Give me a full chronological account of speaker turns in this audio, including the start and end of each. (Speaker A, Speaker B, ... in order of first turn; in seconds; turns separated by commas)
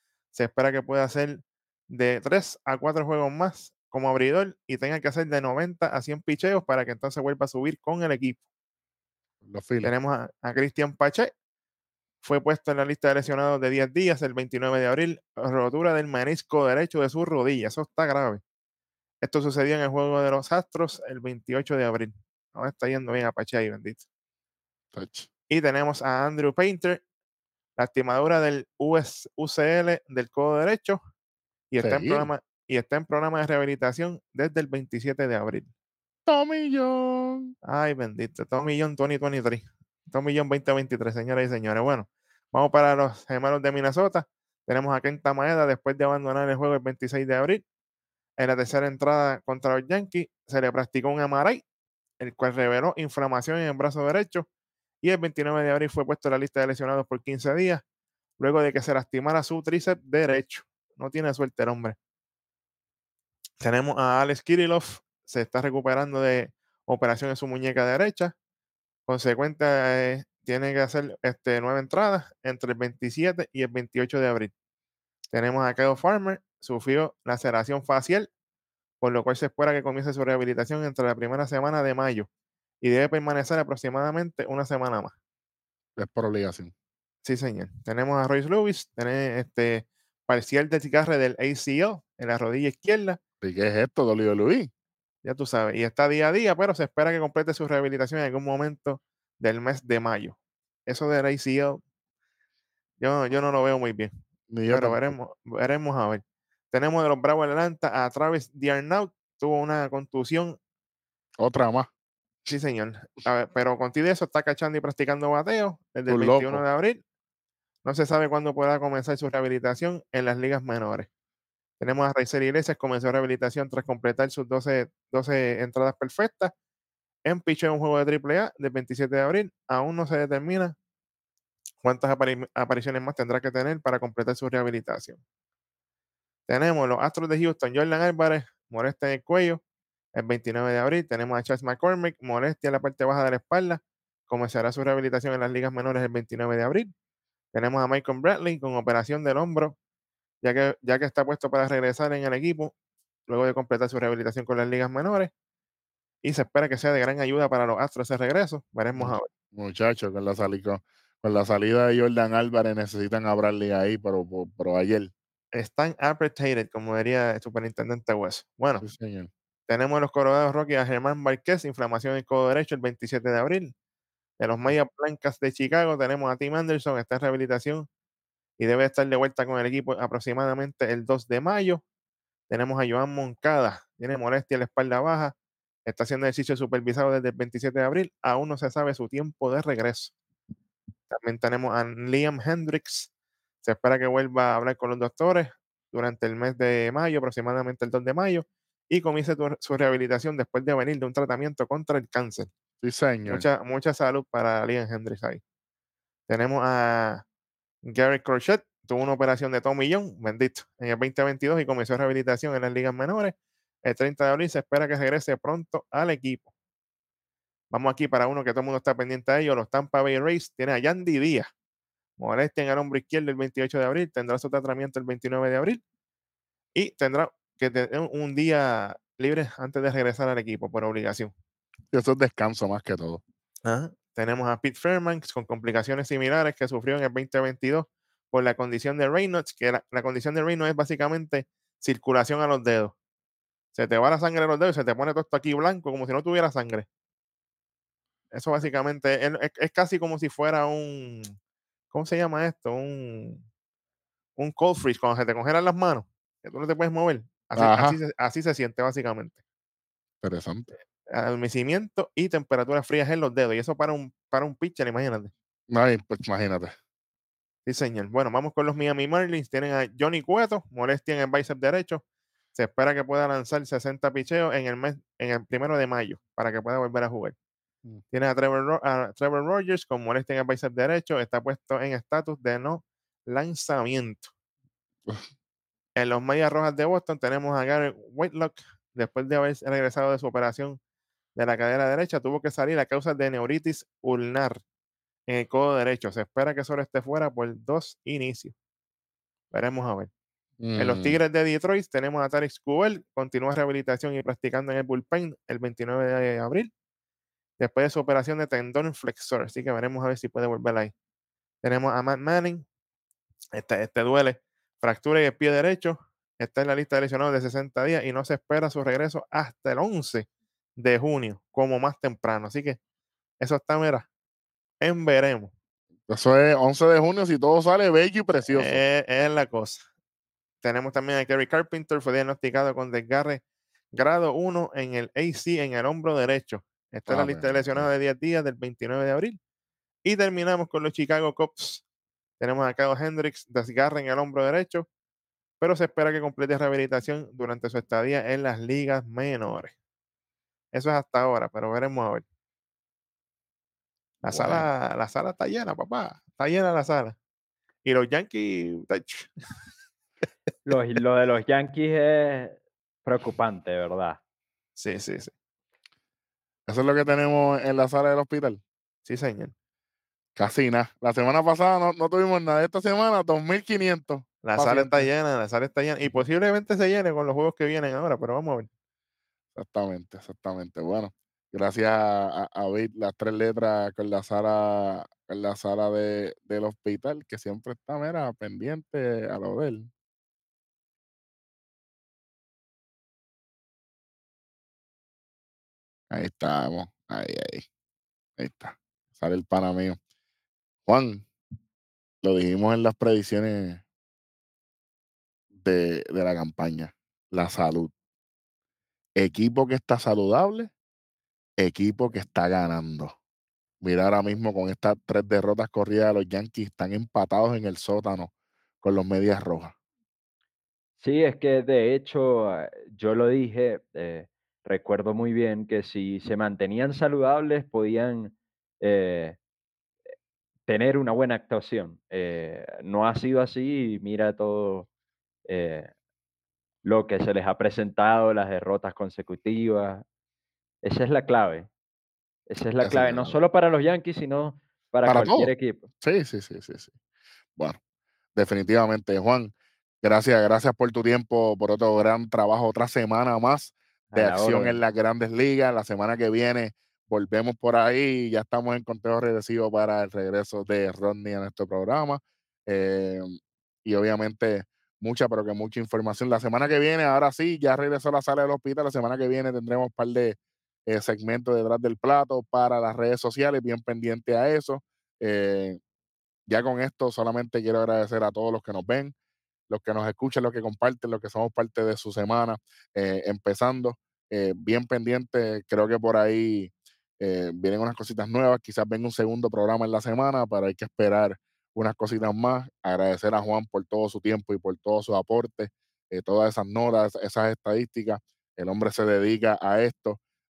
Speaker A: 0.3-8.4, Speaker B: 9.4-9.9, Speaker A: 9.8-11.3, Speaker A: 12.2-18.4, Speaker A: 19.2-24.0, Speaker B: 24.9-25.3, Speaker A: 25.5-27.0, Speaker A: 27.8-31.0, Speaker A: 31.7-35.7, Speaker B: 31.8-32.3, Speaker B: 36.2-37.5, Speaker A: 37.6-47.6, Speaker A: 48.4-51.6, Speaker A: 52.2-54.5, Speaker A: 55.0-57.8, Speaker A: 58.4-62.0, Speaker A: 63.6-68.3, Speaker A: 69.1-74.5, Speaker A: 75.3-78.3, Speaker A: 79.0-82.3, Speaker A: 82.8-85.1, Speaker B: 86.0-86.7, Speaker A: 87.2-93.2, Speaker B: 93.4-94.7, Speaker A: 95.2-101.8, Speaker A: 103.0-104.1, Speaker B: 104.5-105.1, Speaker A: 104.7-110.6, Speaker B: 111.4-111.9, Speaker A: 112.5-117.0, Speaker B: 116.1-116.6, Speaker A: 117.8-121.1, Speaker A: 121.8-126.5, Speaker A: 127.2-130.7, Speaker A: 131.8-135.2, Speaker A: 136.5-139.6, Speaker A: 140.1-146.9, Speaker A: 147.5-149.8, Speaker A: 150.4-152.7, Speaker A: 153.3-155.3, Speaker A: 156.2-159.3, Speaker B: 159.0-165.1, Speaker A: 165.5-168.8, Speaker B: 168.8-169.3, Speaker A: 169.7-173.7, Speaker A: 174.4-177.9, Speaker A: 178.6-181.8, Speaker A: 182.5-185.3, Speaker A: 185.8-190.1, Speaker A: 191.1-193.1, Speaker A: 193.6-202.5, Speaker B: 202.8-203.4, Speaker A: 203.3-205.4, Speaker A: 206.3-207.2, Speaker A: 207.8-216.5, Speaker A: 217.7-221.5, Speaker A: 222.2-225.8, Speaker A: 226.7-231.3, Speaker B: 231.9-233.2, Speaker A: 233.6-242.9, Speaker A: 243.7-246.9, Speaker A: 248.3-251.4, Speaker A: 251.9-253.4, Speaker A: 254.4-259.4, Speaker B: 257.6-258.0, Speaker B: 260.2-260.7, Speaker A: 261.1-265.3, Speaker B: 265.7-266.7, Speaker A: 267.6-272.0, Speaker A: 272.5-277.3, Speaker A: 278.1-284.3, Speaker A: 285.9-290.8, Speaker A: 291.3-294.6, Speaker A: 295.3-298.5, Speaker A: 299.5-300.1, Speaker B: 300.6-301.2, Speaker A: 300.8-306.7, Speaker A: 307.6-310.9, Speaker A: 311.6-312.6, Speaker A: 313.5-322.8, Speaker A: 323.4-324.1, Speaker A: 324.8-325.5, Speaker B: 326.1-328.8, Speaker A: 328.5-329.8, Speaker A: 330.6-339.4, Speaker B: 337.1-337.9, Speaker A: 340.0-341.8, Speaker A: 342.4-344.9, Speaker A: 345.6-349.7, Speaker A: 350.7-352.2, Speaker A: 354.2-357.1, Speaker B: 354.3-354.7, Speaker A: 357.8-359.3, Speaker C: 360.6-364.2, Speaker A: 364.8-365.3, Speaker B: 366.7-368.6, Speaker A: 369.1-369.5, Speaker B: 370.4-375.1, Speaker A: 374.4-378.7, Speaker B: 379.5-389.9, Speaker B: 396.1-397.6, Speaker B: 398.4-400.0, Speaker B: 400.9-401.3, Speaker B: 402.2-403.8, Speaker B: 405.5-407.9, Speaker B: 409.2-410.7, Speaker B: 411.6-413.1, Speaker B: 413.8-418.3, Speaker B: 418.8-419.7, Speaker C: 421.0-429.4, Speaker C: 430.7-434.9, Speaker C: 435.4-435.9, Speaker C: 436.8-440.0, Speaker C: 440.8-441.7, Speaker C: 442.5-445.9, Speaker B: 442.8-443.3, Speaker B: 445.0-446.9, Speaker B: 448.4-475.8, Speaker C: 454.1-454.8, Speaker B: 476.5-479.1, Speaker B: 479.7-500.2